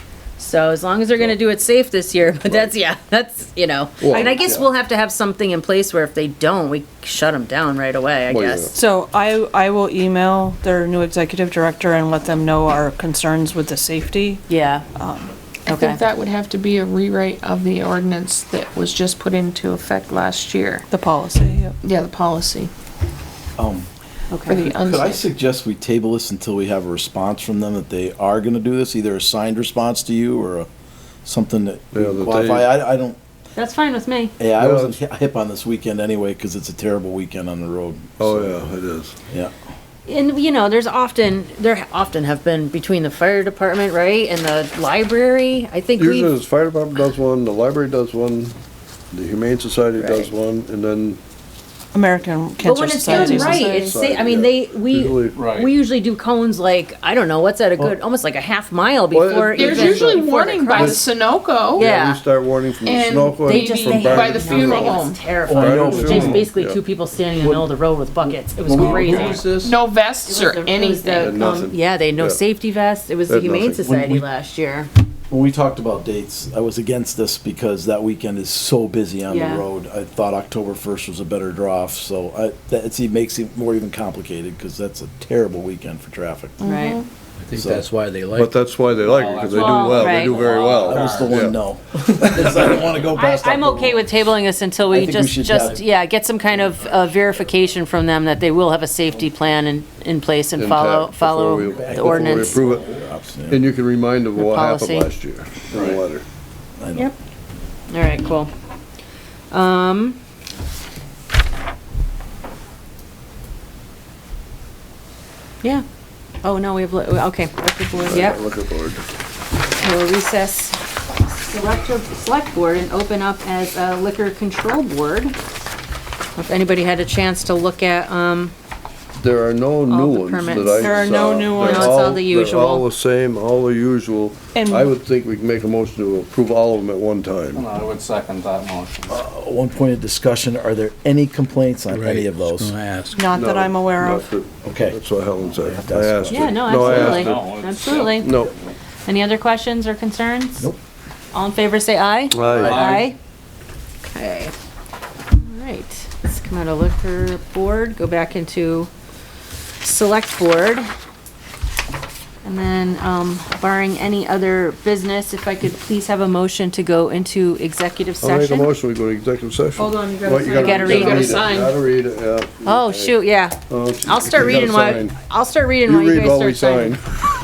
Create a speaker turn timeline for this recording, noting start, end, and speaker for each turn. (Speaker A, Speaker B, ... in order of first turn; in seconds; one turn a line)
Speaker A: 0.4-8.7
Speaker B: 2.5-2.7
Speaker B: 4.0-4.7
Speaker C: 4.1-4.5
Speaker B: 8.3-8.7
Speaker C: 8.7-14.4
Speaker A: 14.5-14.8
Speaker C: 14.9-15.3
Speaker A: 15.7-16.0
Speaker D: 15.7-20.8
Speaker C: 20.9-21.8
Speaker D: 21.8-22.7
Speaker E: 23.6-23.9
Speaker A: 24.3-24.6
Speaker D: 24.4-25.2
Speaker E: 24.5-30.7
Speaker E: 31.2-33.2
Speaker B: 31.9-32.7
Speaker A: 33.5-34.3
Speaker E: 34.4-38.6
Speaker B: 34.6-35.0
Speaker B: 38.2-39.1
Speaker A: 40.0-46.3
Speaker B: 46.0-48.5
Speaker B: 49.1-51.2
Speaker A: 50.0-50.3
Speaker C: 51.9-54.0
Speaker A: 52.6-61.0
Speaker D: 53.1-53.8
Speaker B: 53.7-55.5
Speaker F: 55.3-55.7
Speaker B: 59.1-61.1
Speaker D: 59.4-61.9
Speaker A: 61.8-62.2
Speaker B: 61.8-65.0
Speaker D: 62.8-65.2
Speaker A: 63.4-69.6
Speaker E: 65.5-66.5
Speaker B: 65.5-66.8
Speaker F: 66.1-66.5
Speaker F: 68.7-69.5
Speaker B: 69.0-69.6
Speaker D: 69.6-71.3
Speaker A: 70.2-74.9
Speaker B: 71.2-72.4
Speaker B: 73.3-73.8
Speaker E: 73.8-74.2
Speaker E: 75.3-86.6
Speaker A: 79.3-79.7
Speaker D: 86.6-87.1
Speaker A: 86.6-87.0
Speaker G: 87.4-88.5
Speaker E: 87.5-87.9
Speaker B: 88.4-91.6
Speaker F: 89.0-91.5
Speaker A: 89.5-90.5
Speaker E: 90.6-94.1
Speaker A: 93.1-102.6
Speaker E: 94.9-95.8
Speaker B: 100.5-102.9
Speaker E: 101.7-103.6
Speaker B: 103.5-106.2
Speaker A: 104.4-105.1
Speaker F: 105.7-106.0
Speaker E: 106.8-107.1
Speaker A: 107.9-108.5
Speaker A: 109.5-110.2
Speaker A: 116.4-118.4
Speaker B: 118.0-119.0
Speaker A: 119.8-125.3
Speaker A: 126.4-128.5
Speaker B: 129.2-137.7
Speaker A: 129.9-132.8
Speaker C: 130.7-132.1
Speaker C: 134.5-134.9
Speaker F: 137.5-139.2
Speaker E: 139.1-142.8
Speaker G: 141.9-143.2
Speaker C: 143.1-144.2
Speaker B: 143.3-147.6
Speaker E: 144.6-145.0
Speaker E: 145.5-146.7
Speaker A: 146.3-148.3
Speaker F: 146.7-148.2
Speaker B: 148.1-148.5
Speaker A: 149.1-150.7
Speaker A: 151.3-153.2
Speaker B: 152.3-152.7
Speaker F: 152.4-153.1
Speaker A: 154.1-154.5
Speaker A: 155.3-158.9
Speaker A: 159.8-160.9
Speaker A: 162.4-168.7
Speaker B: 168.2-173.2
Speaker D: 169.8-171.8
Speaker A: 170.5-171.4
Speaker A: 172.6-177.0
Speaker B: 173.7-175.2
Speaker B: 175.8-177.0